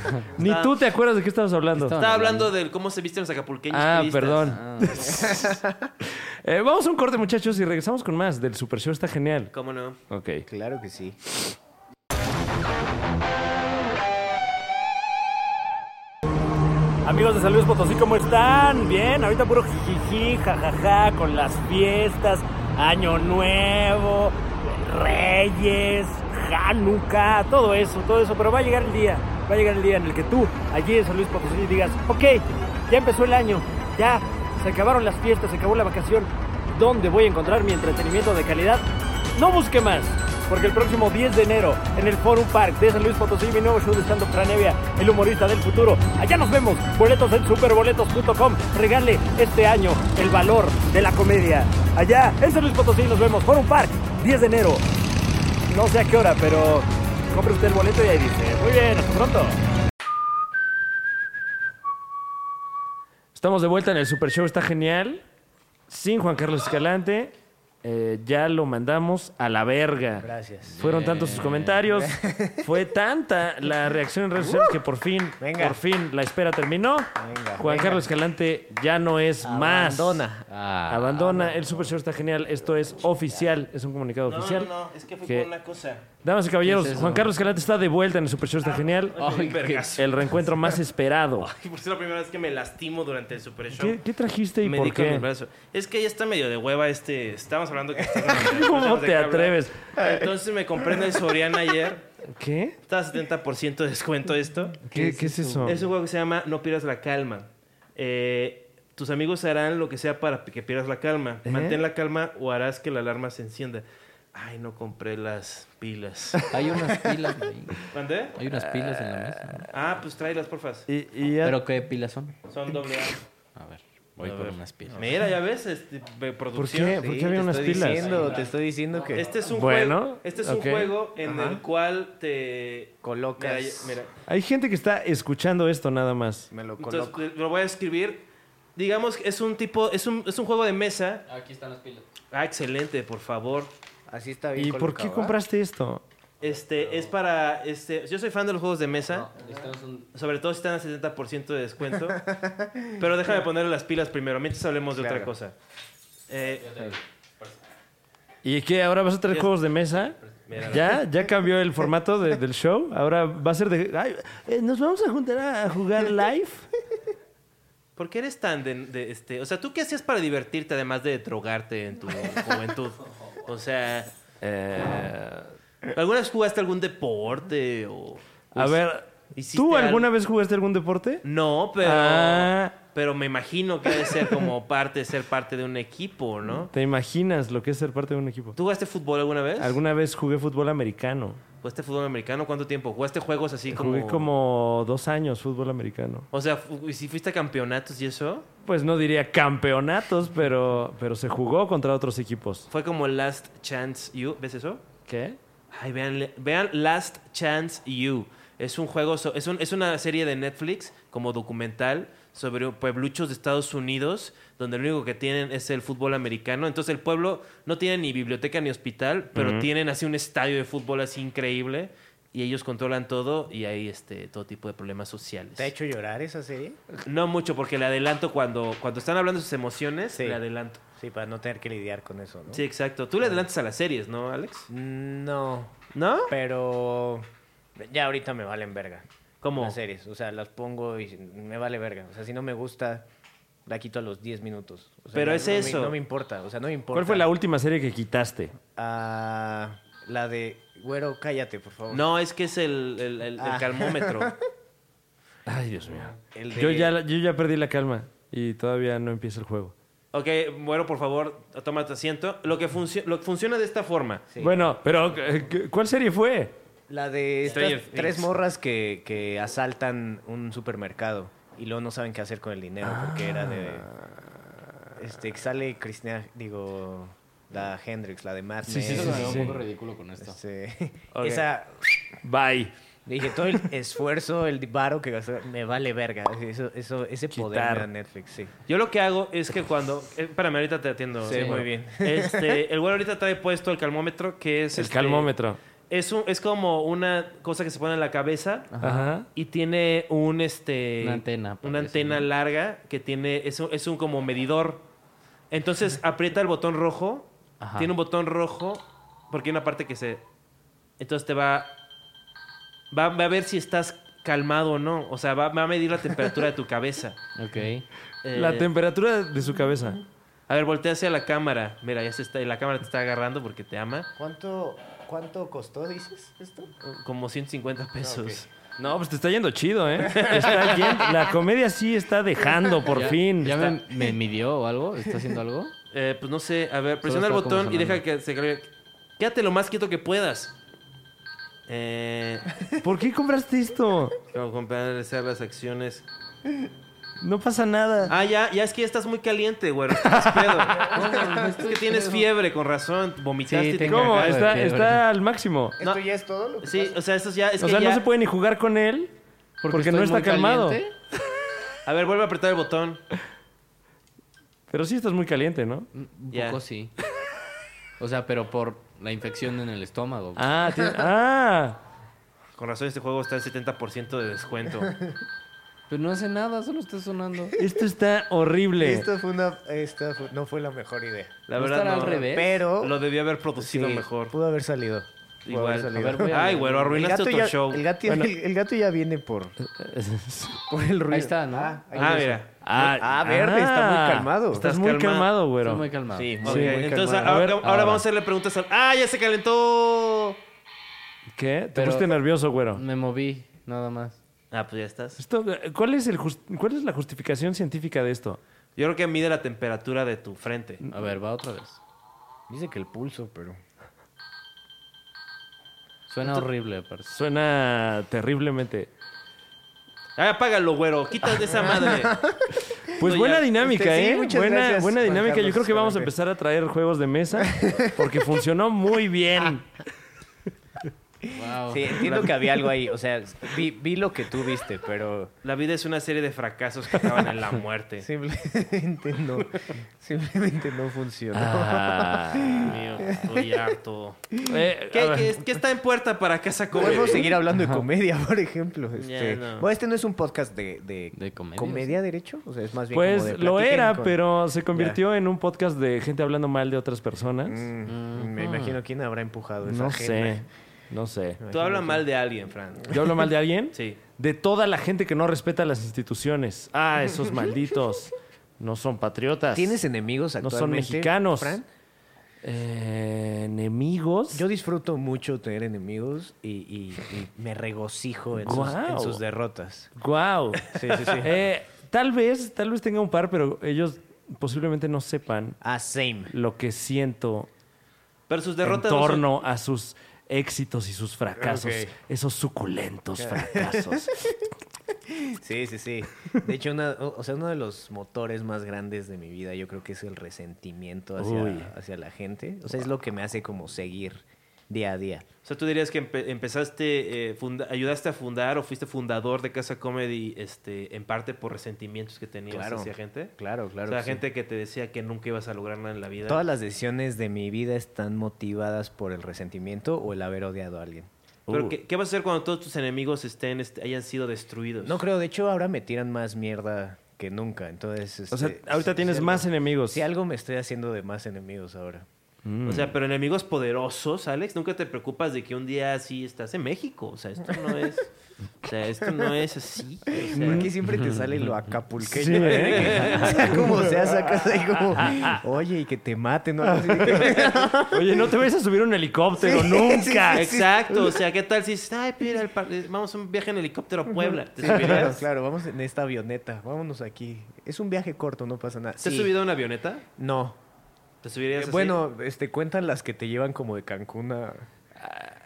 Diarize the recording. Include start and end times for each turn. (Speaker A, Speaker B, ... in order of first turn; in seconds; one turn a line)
Speaker A: 0.4-2.0
Speaker B: 0.4-0.8
Speaker C: 1.8-2.5
Speaker B: 2.0-4.6
Speaker A: 3.7-9.5
Speaker C: 4.5-5.2
Speaker D: 5.1-5.9
Speaker B: 9.5-10.0
Speaker A: 10.1-10.4
Speaker D: 10.5-11.2
Speaker E: 17.1-38.8
Speaker E: 39.4-54.8
Speaker E: 55.7-59.6
Speaker A: 63.4-65.2
Speaker A: 65.9-70.3
Speaker D: 70.2-70.8
Speaker C: 70.7-71.8
Speaker A: 70.8-80.2
Speaker D: 71.9-72.7
Speaker D: 74.4-74.8
Speaker D: 75.4-75.8
Speaker D: 77.2-78.0
Speaker D: 79.4-80.5
Speaker C: 80.5-81.5
Speaker A: 80.9-84.7
Speaker D: 81.2-81.5
Speaker B: 84.3-86.0
Speaker A: 86.2-89.2
Speaker C: 86.6-87.3
Speaker B: 88.6-90.5
Speaker C: 89.2-90.0
Speaker A: 90.0-91.5
Speaker B: 91.4-94.0
Speaker A: 93.7-95.2
Speaker B: 94.6-102.0
Speaker D: 98.1-98.3
Speaker A: 98.4-99.8
Speaker D: 100.0-100.2
Speaker A: 102.3-102.8
Speaker B: 102.9-104.9
Speaker A: 104.9-105.8
Speaker C: 104.9-105.8
Speaker B: 105.6-116.5
Speaker A: 111.5-111.8
Speaker A: 116.4-116.8
Speaker C: 116.5-119.7
Speaker B: 117.9-118.4
Speaker A: 118.5-119.6
Speaker B: 119.7-120.9
Speaker A: 120.9-121.6
Speaker C: 121.4-122.3
Speaker B: 122.5-123.2
Speaker C: 123.6-125.2
Speaker B: 124.2-128.4
Speaker A: 126.5-128.1
Speaker D: 127.0-129.3
Speaker C: 128.1-128.5
Speaker B: 129.1-134.2
Speaker A: 129.5-130.9
Speaker D: 131.2-131.6
Speaker D: 133.0-134.0
Speaker A: 134.3-136.5
Speaker D: 136.5-137.2
Speaker B: 136.8-138.2
Speaker B: 138.8-141.2
Speaker C: 141.3-142.1
Speaker B: 142.3-143.7
Speaker D: 144.1-145.4
Speaker A: 144.6-146.0
Speaker B: 146.4-149.3
Speaker C: 146.5-147.1
Speaker C: 149.1-150.1
Speaker B: 150.1-152.3
Speaker D: 152.2-153.0
Speaker B: 152.9-155.6
Speaker D: 154.9-155.3
Speaker B: 156.3-157.0
Speaker C: 156.4-157.6
Speaker A: 158.4-166.7
Speaker B: 160.1-161.1
Speaker B: 168.0-174.1
Speaker A: 174.4-175.5
Speaker B: 175.9-178.8
Speaker A: 178.5-181.2
Speaker B: 179.3-180.1
Speaker B: 181.2-186.7
Speaker A: 181.8-182.7
Speaker A: 186.7-188.6
Speaker B: 188.6-189.8
Speaker A: 189.6-191.4
Speaker B: 191.6-194.3
Speaker A: 193.7-196.3
Speaker B: 196.3-198.5
Speaker A: 198.7-202.7
Speaker B: 202.7-204.8
Speaker A: 205.1-205.4
Speaker B: 205.7-225.7
Speaker A: 219.4-219.7
Speaker D: 225.6-226.8
Speaker B: 227.1-230.8
Speaker D: 230.2-230.4
Speaker D: 231.0-232.7
Speaker B: 232.5-234.7
Speaker D: 234.7-235.8
Speaker B: 235.9-236.3
Speaker D: 236.3-243.1
Speaker B: 239.4-239.8
Speaker D: 243.7-247.3
Speaker B: 245.1-246.0
Speaker A: 246.9-248.6
Speaker D: 248.8-252.1
Speaker B: 251.9-254.3
Speaker D: 253.4-254.3
Speaker A: 255.5-259.7
Speaker D: 256.3-256.9
Speaker B: 260.1-264.3
Speaker D: 264.3-264.7
Speaker A: 264.4-266.6
Speaker D: 266.9-273.9
Speaker B: 267.5-268.3
Speaker A: 272.8-274.2
Speaker D: 275.0-279.6
Speaker A: 278.6-279.6
Speaker C: 278.8-280.4
Speaker D: 280.2-282.1
Speaker B: 281.1-281.5
Speaker A: 282.2-282.7
Speaker D: 283.1-288.5
Speaker A: 287.3-287.9
Speaker B: 288.7-295.3
Speaker C: 291.2-291.6
Speaker D: 291.2-292.6
Speaker A: 294.8-295.6
Speaker B: 295.9-298.7
Speaker C: 298.7-299.1
Speaker A: 298.8-299.3
Speaker B: 299.4-304.8
Speaker C: 301.0-302.3
Speaker B: 305.5-310.2
Speaker C: 307.6-307.9
Speaker B: 311.0-311.8
Speaker B: 312.9-317.2
Speaker C: 317.4-317.9
Speaker B: 318.2-318.7
Speaker A: 318.3-320.0
Speaker B: 320.5-324.1
Speaker D: 324.2-326.7
Speaker B: 326.8-328.5
Speaker D: 328.0-328.4
Speaker A: 328.8-333.8
Speaker B: 330.1-331.1
Speaker C: 332.9-335.7
Speaker B: 335.9-340.6
Speaker C: 337.0-338.0
Speaker B: 341.7-342.5
Speaker A: 342.8-344.2
Speaker B: 344.3-346.1
Speaker A: 347.2-348.1
Speaker B: 348.1-354.6
Speaker A: 350.1-350.7
Speaker D: 350.8-351.5
Speaker C: 350.8-352.2
Speaker C: 353.5-355.0
Speaker A: 353.9-355.8
Speaker D: 355.8-357.0
Speaker B: 356.6-358.0
Speaker A: 357.6-359.1
Speaker C: 359.6-360.9
Speaker A: 359.7-360.8
Speaker B: 361.9-363.0
Speaker A: 364.7-365.9
Speaker C: 365.9-366.9
Speaker B: 366.3-366.6
Speaker C: 368.0-370.5
Speaker A: 370.4-371.8
Speaker B: 372.6-375.0
Speaker C: 375.9-377.6
Speaker A: 377.6-379.1
Speaker D: 378.8-381.4
Speaker B: 381.5-384.4
Speaker C: 381.6-382.6
Speaker D: 382.1-383.0
Speaker D: 383.6-389.6
Speaker B: 385.5-387.9
Speaker C: 385.9-387.1
Speaker A: 388.1-388.3
Speaker A: 389.6-390.6
Speaker D: 390.7-394.8
Speaker C: 391.1-392.4
Speaker B: 391.9-393.0
Speaker A: 392.6-395.9
Speaker B: 394.5-395.3
Speaker C: 395.6-396.3
Speaker D: 396.1-397.5
Speaker B: 396.4-400.4
Speaker A: 396.4-398.0
Speaker A: 401.3-402.8
Speaker C: 401.7-402.2
Speaker C: 402.7-404.2
Speaker B: 404.5-405.2
Speaker A: 405.2-408.4
Speaker B: 408.8-410.8
Speaker C: 410.9-411.8
Speaker D: 412.5-413.6
Speaker C: 416.1-417.1
Speaker A: 417.1-418.9
Speaker B: 420.2-422.2
Speaker D: 421.5-422.4
Speaker A: 423.0-429.8
Speaker B: 423.0-423.5
Speaker D: 423.6-426.1
Speaker D: 427.6-427.9
Speaker D: 431.2-435.3
Speaker C: 431.3-432.2
Speaker B: 435.4-438.1
Speaker D: 438.0-443.7
Speaker A: 441.3-442.8
Speaker B: 442.6-444.3
Speaker D: 444.3-444.6
Speaker A: 444.4-445.4
Speaker B: 444.9-447.4
Speaker D: 446.7-454.2
Speaker C: 447.5-447.9
Speaker B: 449.0-449.7
Speaker C: 451.1-451.9
Speaker A: 452.9-457.7
Speaker D: 454.7-455.0
Speaker D: 457.4-460.4
Speaker C: 457.9-458.8
Speaker A: 459.6-461.4
Speaker D: 461.4-462.1
Speaker B: 461.5-462.9
Speaker D: 462.9-463.1
Speaker A: 462.9-469.8
Speaker B: 463.7-464.0
Speaker D: 469.5-471.7
Speaker A: 470.4-471.6
Speaker A: 472.4-474.4
Speaker D: 474.3-479.9
Speaker A: 478.4-479.2
Speaker A: 480.0-485.6
Speaker D: 480.7-481.4
Speaker D: 485.6-486.3
Speaker A: 486.3-487.5
Speaker B: 488.3-489.3
Speaker A: 488.6-494.3
Speaker D: 491.4-491.9
Speaker D: 493.1-494.3
Speaker D: 495.1-505.3
Speaker A: 501.2-501.7
Speaker B: 505.4-513.3
Speaker D: 512.5-514.2
Speaker B: 513.9-516.4
Speaker D: 516.2-521.1
Speaker A: 521.5-521.8
Speaker B: 521.5-525.0
Speaker D: 524.8-532.1
Speaker A: 528.3-530.0
Speaker A: 532.5-532.9
Speaker B: 532.7-538.1
Speaker B: 538.6-540.7
Speaker D: 540.1-548.3
Speaker A: 540.3-540.7
Speaker C: 540.8-541.6
Speaker A: 542.0-544.1
Speaker B: 542.3-543.6
Speaker A: 545.0-545.4
Speaker A: 546.7-550.5
Speaker D: 549.4-551.1
Speaker B: 550.3-555.2
Speaker D: 554.1-559.3
Speaker A: 554.7-555.1
Speaker B: 559.0-560.0
Speaker D: 560.2-560.6
Speaker B: 561.2-562.0
Speaker D: 561.5-564.7
Speaker A: 565.0-565.3